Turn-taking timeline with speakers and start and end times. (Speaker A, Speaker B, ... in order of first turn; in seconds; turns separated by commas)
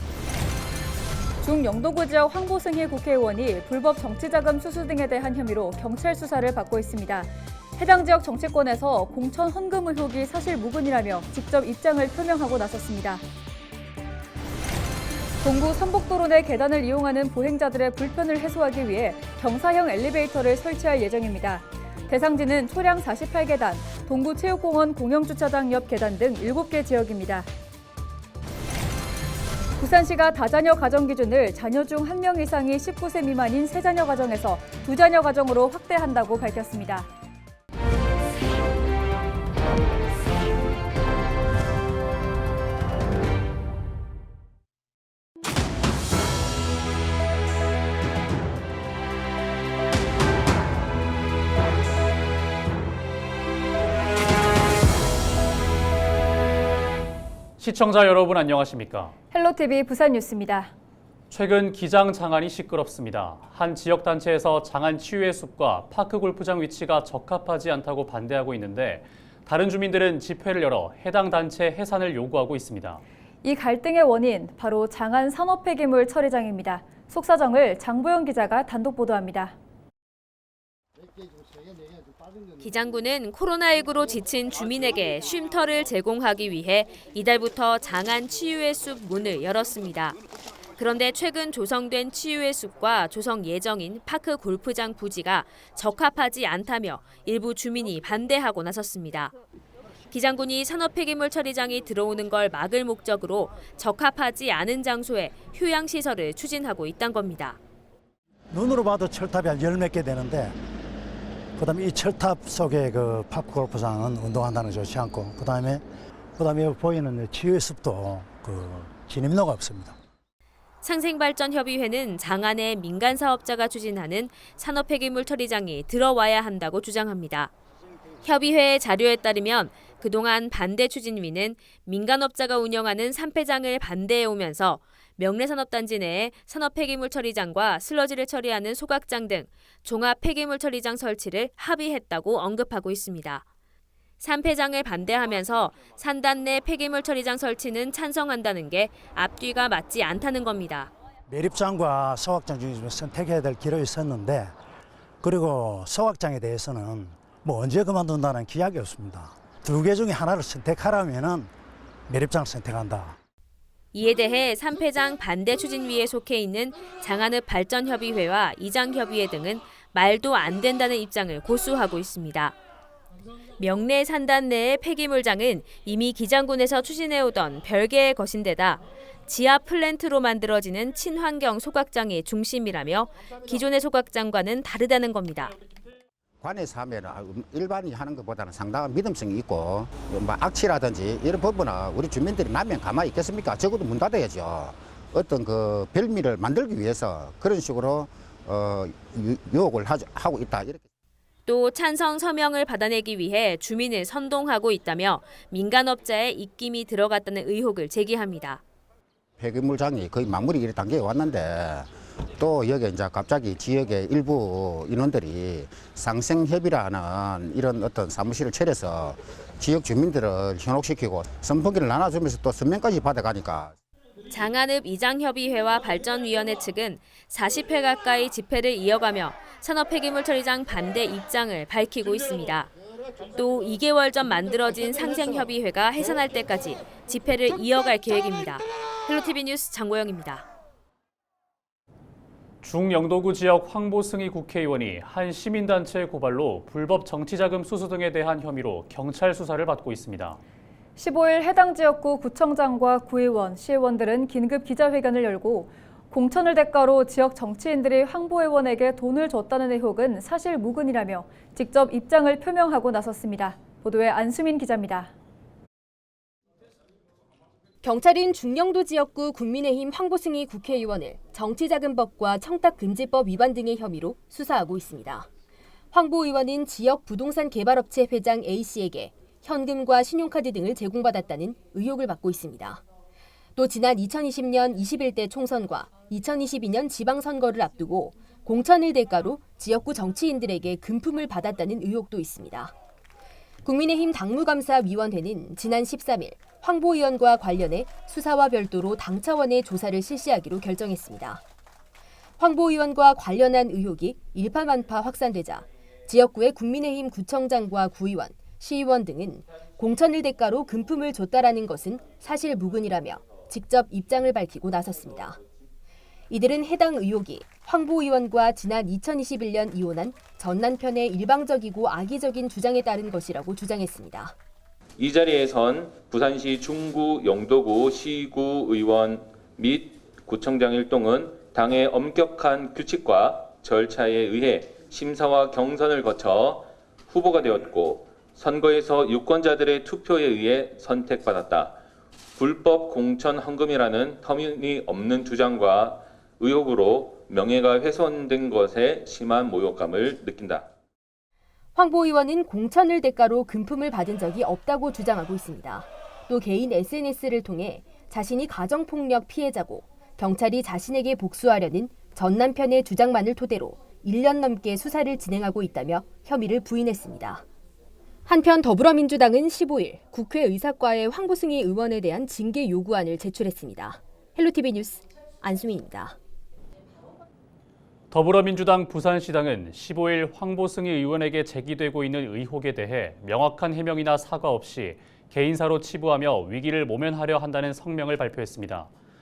Speaker A: 1.4-13.2, Speaker A: 15.4-27.5, Speaker A: 29.8-37.1, Speaker B: 57.6-59.1, Speaker A: 59.3-60.7, Speaker B: 61.3-73.0, Speaker A: 73.4-79.5, Speaker C: 82.6-90.2, Speaker C: 90.8-99.3, Speaker C: 100.1-107.6, Speaker D: 108.5-110.5, Speaker D: 111.6-115.8, Speaker D: 116.4-120.0, Speaker C: 120.8-127.5, Speaker C: 128.2-143.4, Speaker C: 144.2-150.9, Speaker D: 151.3-154.5, Speaker D: 155.2-161.5, Speaker D: 162.1-163.2, Speaker C: 163.9-172.6, Speaker C: 173.6-185.5, Speaker E: 186.4-200.8, Speaker C: 201.4-208.6, Speaker E: 209.4-223.7, Speaker C: 224.3-232.7, Speaker C: 233.3-240.4, Speaker B: 242.6-250.4, Speaker A: 250.9-265.1, Speaker F: 267.8-275.3, Speaker F: 275.9-282.8, Speaker F: 283.6-292.7, Speaker F: 293.6-301.4, Speaker F: 302.4-315.4, Speaker F: 316.3-324.3, Speaker G: 325.0-341.8, Speaker G: 342.4-350.7, Speaker F: 351.7-367.4, Speaker F: 368.2-376.1, Speaker B: 378.1-388.9